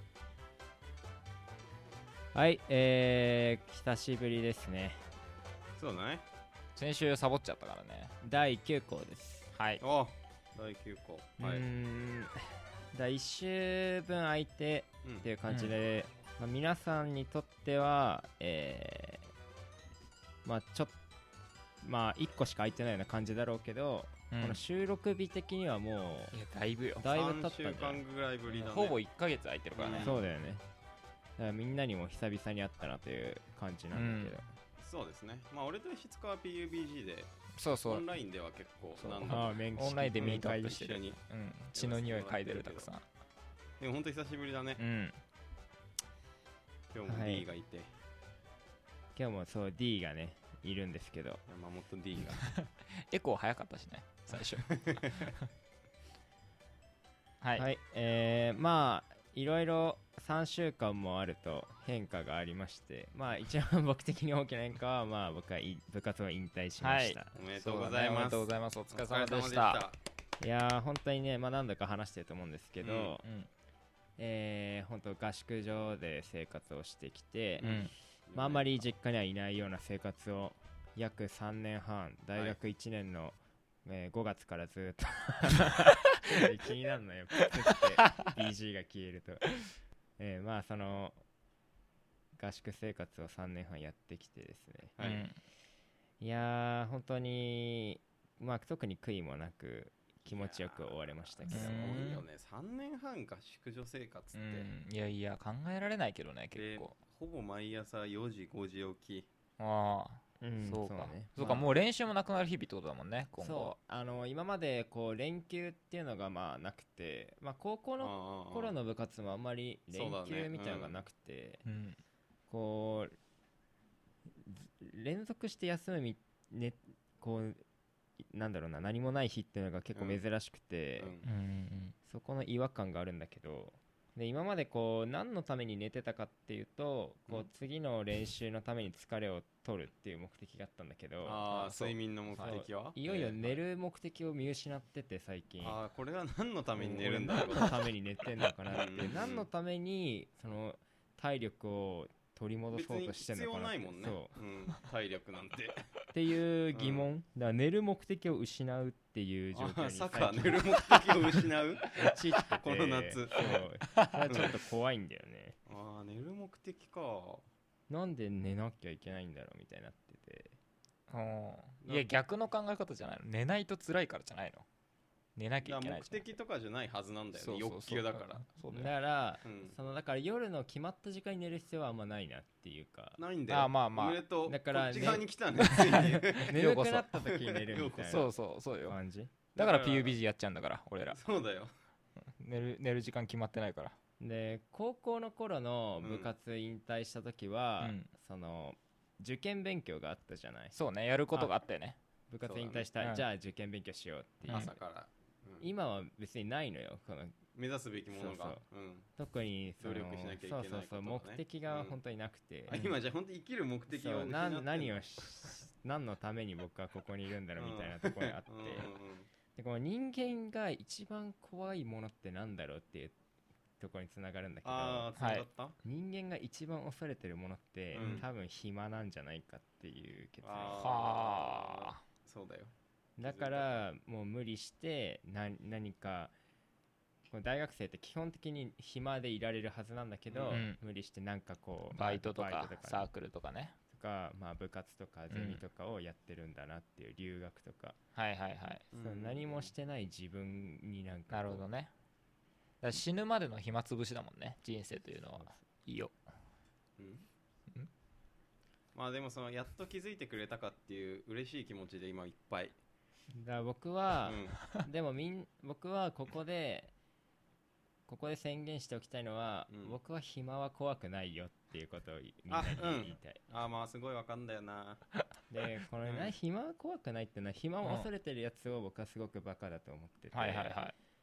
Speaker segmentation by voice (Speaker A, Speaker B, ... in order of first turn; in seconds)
Speaker A: 2.3-5.0, 8.2-9.5, 11.4-19.3, 20.4-21.0, 21.8-26.4, 27.0-28.0, 30.0-30.6, 31.4-34.5, 39.3-40.9, 47.0-47.5, 49.2-51.4, 57.6-67.3, 70.4-73.2, 74.2-77.7, 78.3-89.6, 90.2-91.2, 92.3-95.0, 96.2-102.0, 110.4-111.7, 113.4-121.6, 122.5-123.2, 124.5-127.6, 128.2-131.2, 132.1-145.8, 146.8-154.4, 156.1-161.3, 161.9-165.6, 167.9-170.6, 178.7-183.2, 184.5-188.3, 188.9-189.3, 194.2-200.8, 202.3-204.8, 205.6-207.4, 208.1-208.6, 209.2-213.0, 213.9-218.9, 219.6-223.2, 223.8-225.1, 225.8-230.9, 233.2-236.3, 237.3-243.1, 243.9-248.0, 249.0-251.7, 263.3-266.9, 268.1-273.4, 275.5-280.8
Speaker B: 5.8-6.2, 9.8-11.7, 27.0-29.0, 29.7-30.2, 34.8-37.3, 37.8-41.2, 41.7-42.9, 43.8-44.8, 46.9-47.9, 51.5-52.4, 54.3-55.3, 67.3-70.0, 72.8-73.2, 77.6-78.9, 95.0-95.2, 100.3-104.7, 106.5-109.3, 111.4-111.7, 118.0-118.7, 119.9-121.0, 129.9-130.2, 131.0-131.3, 141.2-143.6, 145.6-147.8, 148.7-149.5, 152.7-155.9, 156.7-157.1, 159.5-163.6, 164.3-164.5, 165.7-167.4, 171.8-172.1, 175.6-178.4, 179.4-179.7, 183.2-186.6, 187.2-188.3, 189.6-190.2, 191.1-191.7, 196.0-196.3, 202.4-202.9, 204.5-205.7, 207.6-209.1, 209.8-212.0, 212.7-214.9, 217.6-219.3, 224.6-225.8, 227.9-228.3, 230.4-233.8, 240.3-240.6, 248.9-249.7, 257.0-257.3, 258.9-262.8, 264.2-264.6, 269.7-270.0, 272.5-275.1, 276.1-276.3
Speaker C: 6.8-8.1, 9.6-9.8, 15.5-15.8, 24.3-24.6, 26.3-27.1, 28.5-30.2, 33.9-34.4, 37.6-38.0, 39.0-43.0, 44.8-45.1, 52.4-55.5, 66.8-69.8, 73.2-73.5, 77.6-77.9, 95.0-95.4, 101.5-102.2, 104.3-106.9, 109.6-113.8, 121.7-122.0, 131.2-131.9, 171.1-174.7, 175.4-176.3, 177.3-178.9, 183.5-184.2, 185.7-186.0, 186.5-187.2, 188.1-189.0, 189.6-191.2, 192.3-194.0, 197.8-198.1, 200.7-202.0, 225.2-225.4, 228.0-228.2, 230.8-232.0, 240.5-240.8, 241.9-243.8, 245.3-245.6, 248.2-248.9, 251.3-251.9, 252.8-256.1, 277.8-278.1, 280.3-280.9